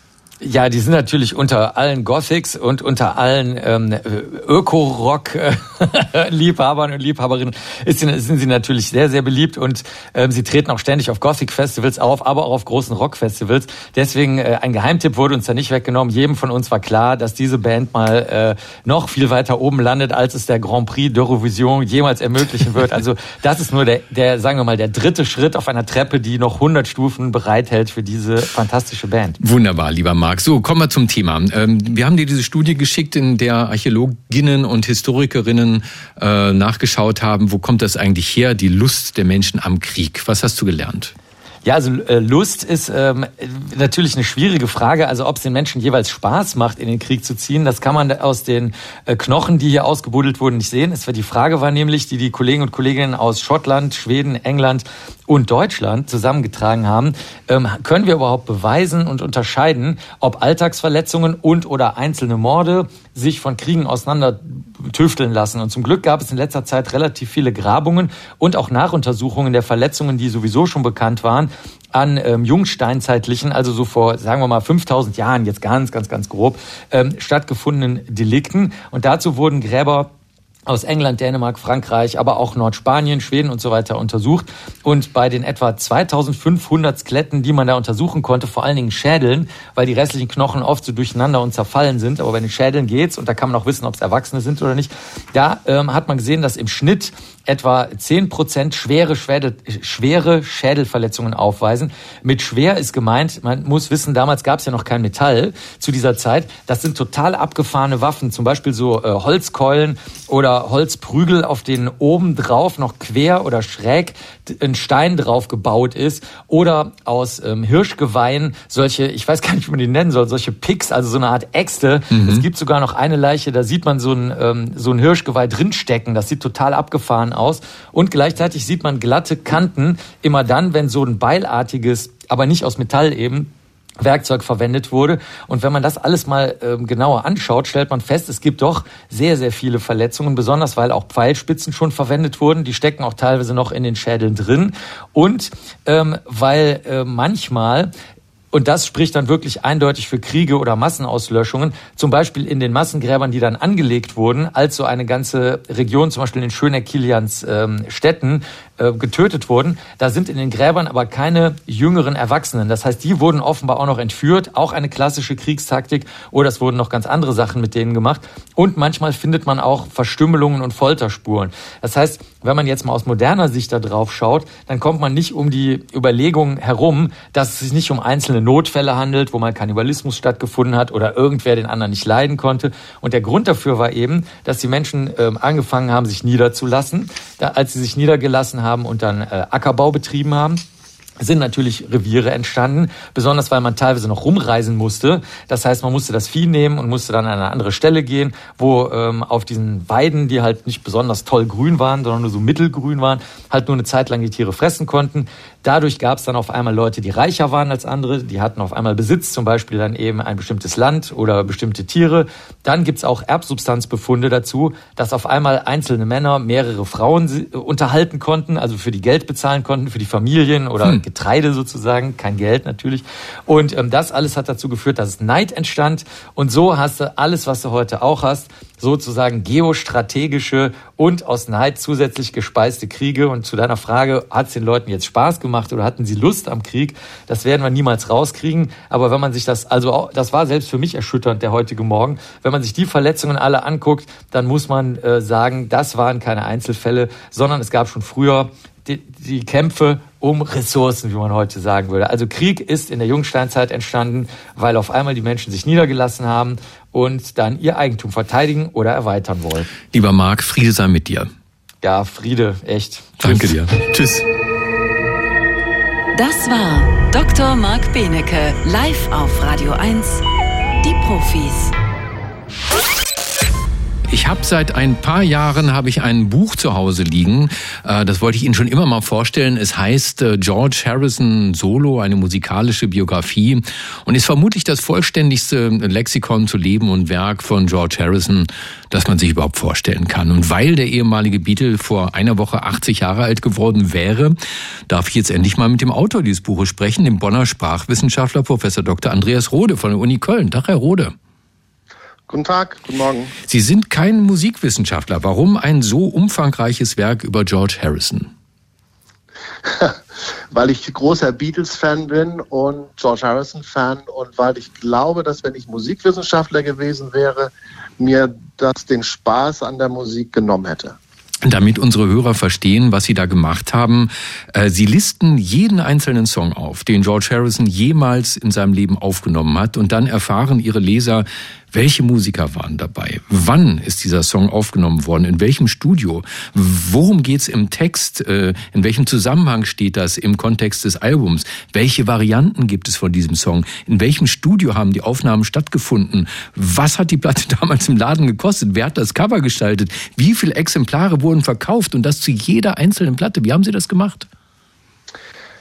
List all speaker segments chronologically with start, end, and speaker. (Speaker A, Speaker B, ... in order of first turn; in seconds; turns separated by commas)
Speaker A: 0.4-29.4, Speaker B: 29.4-41.1, Speaker A: 41.6-80.1, Speaker A: 80.7-147.9, Speaker B: 122.1-122.5, Speaker A: 148.5-190.6, Speaker A: 191.2-259.7, Speaker B: 259.8-261.3, Speaker A: 261.8-263.6, Speaker B: 263.2-264.2, Speaker C: 266.1-270.2, Speaker C: 270.8-271.7, Speaker B: 274.1-294.4, Speaker B: 294.9-301.1, Speaker D: 302.3-303.3, Speaker B: 303.5-308.3, Speaker D: 309.7-310.0, Speaker D: 310.5-321.0, Speaker B: 321.4-354.3